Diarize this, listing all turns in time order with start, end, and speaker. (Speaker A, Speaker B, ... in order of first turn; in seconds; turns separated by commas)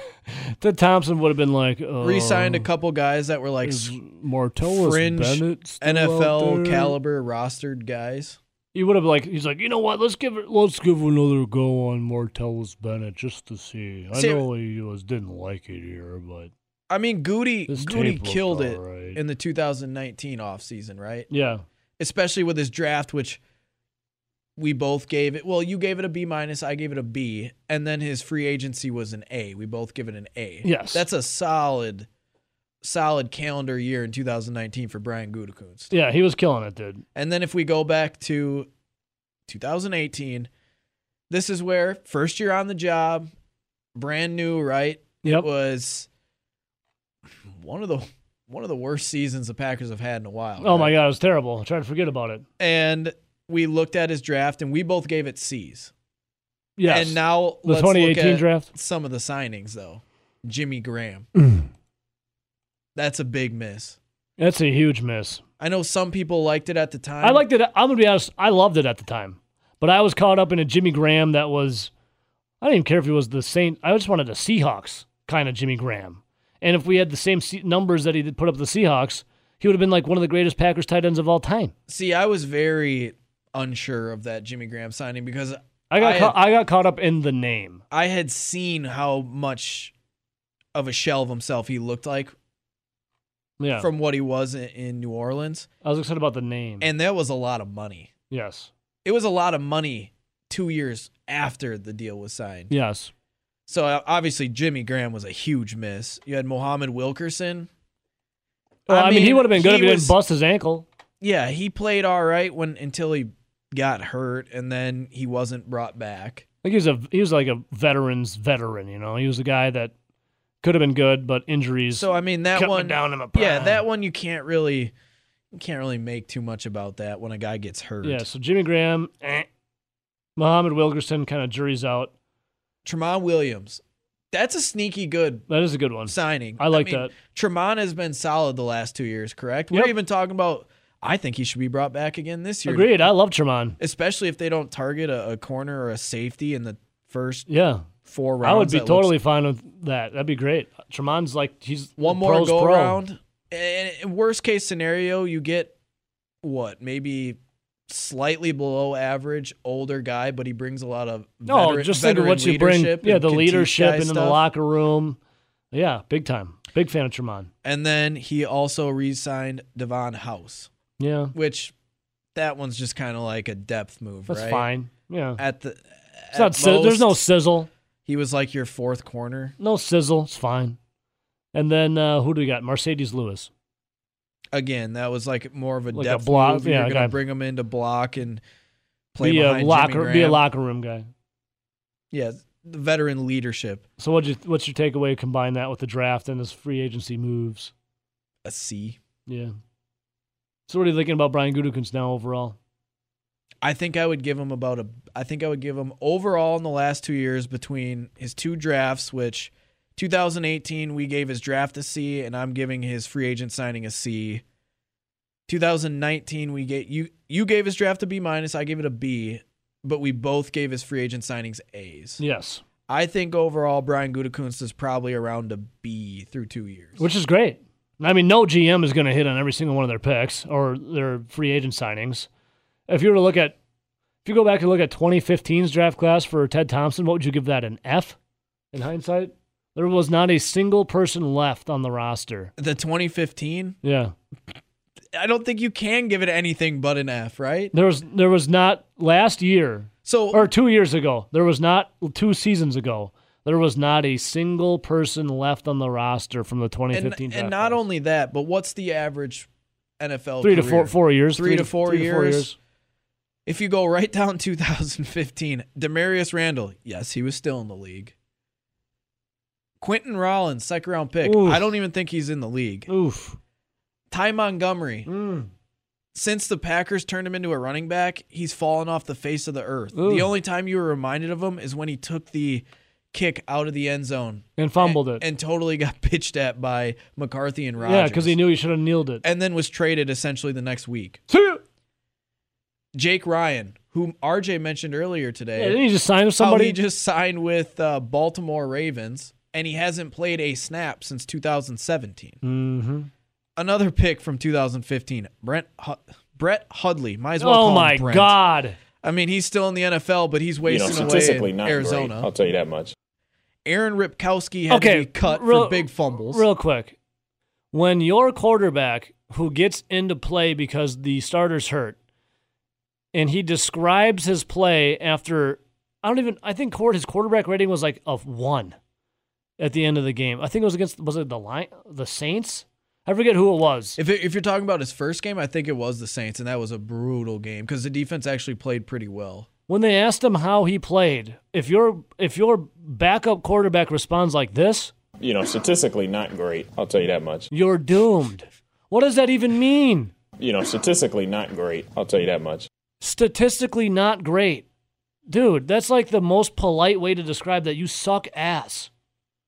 Speaker A: 0.3-2.7, Speaker B: 2.0-4.0, Speaker A: 3.6-7.0, Speaker B: 4.6-8.4, Speaker A: 8.7-16.5, Speaker B: 14.1-14.5, Speaker B: 16.9-21.3, Speaker A: 17.7-19.2, Speaker A: 21.3-21.6, Speaker B: 22.0-23.4, Speaker B: 24.6-32.1, Speaker A: 30.6-31.1, Speaker B: 32.8-35.9, Speaker A: 35.9-37.0, Speaker B: 37.1-38.7, Speaker B: 39.5-40.5, Speaker B: 41.3-43.3, Speaker B: 44.0-46.1, Speaker B: 47.5-50.9, Speaker A: 50.6-52.5, Speaker B: 52.6-55.9, Speaker A: 56.8-58.7, Speaker B: 56.9-61.3, Speaker A: 61.4-61.7, Speaker B: 63.0-64.0, Speaker A: 64.4-65.4, Speaker B: 65.6-67.5, Speaker A: 67.2-71.9, Speaker A: 72.6-81.7, Speaker B: 81.9-86.4, Speaker A: 85.9-87.8, Speaker B: 87.9-89.9, Speaker B: 90.7-92.3, Speaker A: 93.6-93.9, Speaker B: 93.8-95.7, Speaker A: 95.8-96.9, Speaker B: 96.8-98.1, Speaker A: 98.3-98.7, Speaker B: 99.0-102.7, Speaker A: 102.7-103.1, Speaker B: 103.7-107.7, Speaker A: 108.9-110.9, Speaker B: 108.9-110.2, Speaker B: 111.2-116.5, Speaker A: 116.6-119.9, Speaker A: 120.6-123.8, Speaker B: 121.9-124.9, Speaker B: 125.5-128.3, Speaker A: 128.0-129.5, Speaker A: 130.4-132.1, Speaker B: 132.8-135.5, Speaker A: 135.5-137.1, Speaker B: 136.1-143.0, Speaker A: 142.7-143.8, Speaker B: 143.8-147.5, Speaker A: 147.5-147.9, Speaker B: 148.0-149.2, Speaker A: 148.4-153.0, Speaker B: 152.0-155.8, Speaker B: 156.4-164.4, Speaker A: 161.5-165.2, Speaker A: 165.7-167.5, Speaker B: 167.6-170.7, Speaker A: 171.0-171.3, Speaker B: 171.3-171.7, Speaker B: 172.3-174.7, Speaker A: 174.3-175.4, Speaker B: 175.4-177.2, Speaker A: 176.3-177.7, Speaker B: 178.1-179.6, Speaker A: 179.6-180.8, Speaker A: 181.5-183.5, Speaker B: 184.5-188.4, Speaker A: 185.9-187.2, Speaker B: 189.1-190.4, Speaker A: 189.2-191.1, Speaker B: 192.1-193.8, Speaker A: 194.0-197.7, Speaker B: 198.4-199.0, Speaker A: 199.3-199.5, Speaker A: 200.7-202.6, Speaker B: 203.6-214.4, Speaker B: 215.5-222.2, Speaker A: 222.2-222.6, Speaker B: 222.9-227.0, Speaker A: 227.0-232.3, Speaker A: 232.9-233.6, Speaker A: 234.2-238.2, Speaker A: 238.7-242.5, Speaker B: 242.6-243.8, Speaker A: 243.8-244.1, Speaker B: 245.1-247.7, Speaker A: 247.7-257.8, Speaker B: 250.1-250.5, Speaker B: 256.9-259.5, Speaker B: 260.0-262.5, Speaker A: 260.4-262.6, Speaker B: 263.5-268.1, Speaker B: 269.8-272.9, Speaker A: 271.2-271.7, Speaker A: 272.9-273.4, Speaker B: 274.1-275.1, Speaker A: 275.1-275.5, Speaker B: 276.1-288.4, Speaker A: 279.9-280.3, Speaker A: 284.6-285.2, Speaker A: 287.8-289.2, Speaker B: 289.2-291.2, Speaker A: 291.3-291.6, Speaker B: 292.9-295.8, Speaker A: 295.6-296.8, Speaker B: 296.4-302.4, Speaker A: 302.4-303.1, Speaker B: 303.6-308.4, Speaker A: 307.4-308.8, Speaker B: 309.0-312.3, Speaker C: 310.6-312.9, Speaker B: 313.7-316.5, Speaker A: 314.7-317.0, Speaker A: 317.7-322.0, Speaker A: 323.1-328.8, Speaker A: 329.6-334.0, Speaker B: 334.0-339.5, Speaker A: 339.7-344.9, Speaker C: 345.2-347.5, Speaker A: 347.5-350.1, Speaker C: 350.4-352.7, Speaker A: 353.0-354.6, Speaker A: 355.3-358.9